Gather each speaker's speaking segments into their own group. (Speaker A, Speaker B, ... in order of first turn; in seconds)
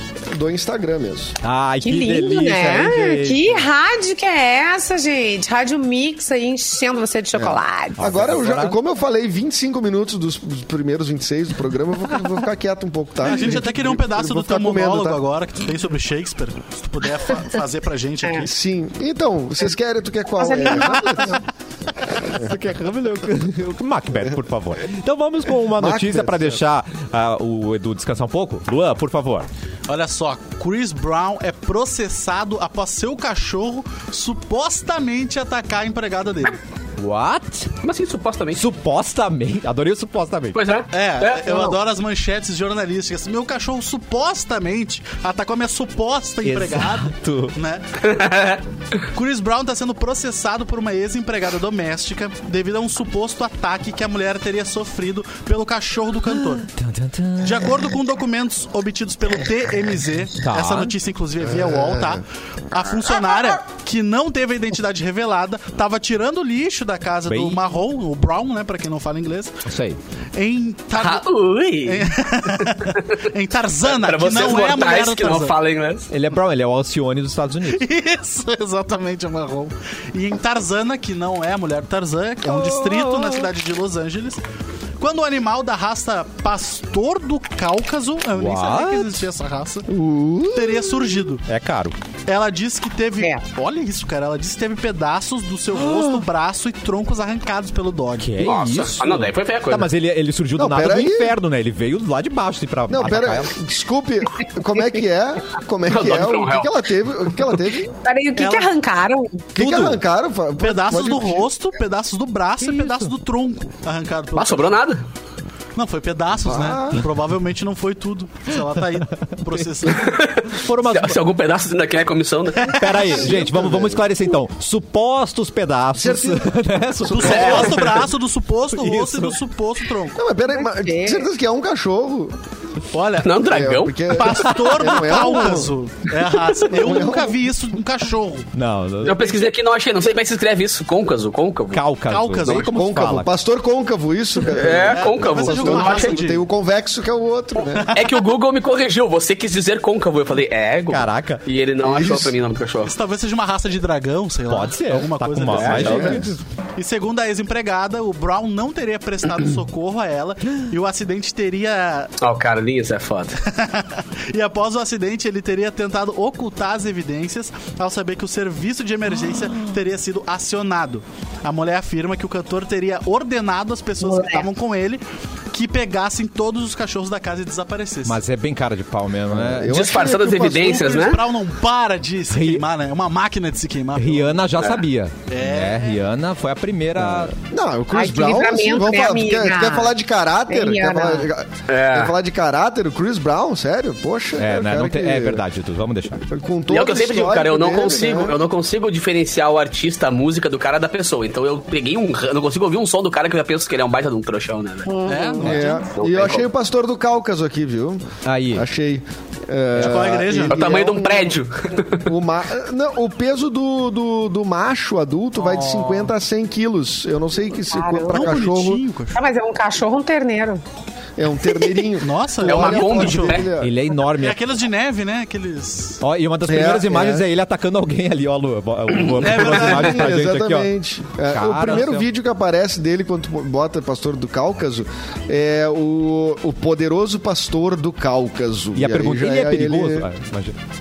Speaker A: 0.3-1.4, 7.3-15.2, 18.4-21.4, 22.2-22.5, 25.8-26.6, 61.4-62.2, 82.5-83.1, 89.9-91.3, 100.6-101.4, 102.9-107.9, 109.5-111.5, 116.4-117.0, 123.2-124.0, 126.0-127.8, 130.1-132.4, 133.5-135.7, 136.7-137.4, 142.7-147.9, 155.7-156.3, 179.3-181.1, 187.0-195.4, 196.2-198.4, 205.4-211.4, 212.0-218.8, 221.2-223.8, 226.5-227.2, 229.3-240.1
Speaker B: 1.4-3.7, 8.0-8.8, 22.3-29.5, 37.0-37.7, 38.5-40.6, 46.4-47.6, 56.6-57.9, 60.4-61.0, 67.3-67.6, 69.7-70.0, 76.1-77.9, 82.6-83.4, 88.3-89.2, 91.5-92.0, 95.8-96.2, 98.2-103.5, 109.6-110.0, 112.6-113.1, 120.5-121.2, 122.7-127.9, 128.7-129.4, 138.5-139.3, 141.7-143.3, 150.9-151.4, 154.5-156.4, 178.1-179.8, 182.3-182.7, 184.0-187.3, 194.4-196.2, 208.2-208.7, 209.8-210.1, 223.6-224.4, 226.0-230.7, 231.3-232.1, 238.8-240.6
Speaker C: 1.8-8.1, 20.4-21.4, 108.0-109.5, 130.5-131.3, 174.0-174.5, 187.9-190.0, 190.5-191.3, 204.9-205.6, 217.7-218.3, 219.1-220.6
Speaker D: 13.2-18.5, 29.9-36.6, 40.9-47.9, 49.1-56.7, 57.4-69.6, 70.3-71.3, 71.8-75.6, 77.7-84.4, 85.0-89.9, 90.5-91.5, 92.3-98.4, 108.4-108.7, 110.6-114.8, 115.8-120.2, 122.7-123.1, 127.1-130.2, 132.9-133.4, 134.1-138.5, 142.1-142.8, 144.9-146.4, 147.7-148.2, 152.8-162.1, 163.5-178.2, 180.4-184.4, 185.3-186.0, 205.1-205.8, 209.8-210.8, 215.6-215.9, 218.1-219.2, 222.0-223.5, 224.1-226.0, 229.2-230.2
Speaker E: 37.8-38.6, 40.5-41.7, 48.0-48.6, 71.0-72.1, 72.7-73.0, 73.8-76.1, 98.4-99.9, 105.9-106.8, 114.3-115.0, 119.9-123.3, 127.2-128.0, 133.2-134.2, 139.0-141.8, 144.4-146.2, 147.9-152.9, 155.5-156.2, 162.2-163.4, 179.7-181.2, 191.7-192.1, 196.7-204.9, 205.8-206.5, 210.5-212.1, 222.4-223.5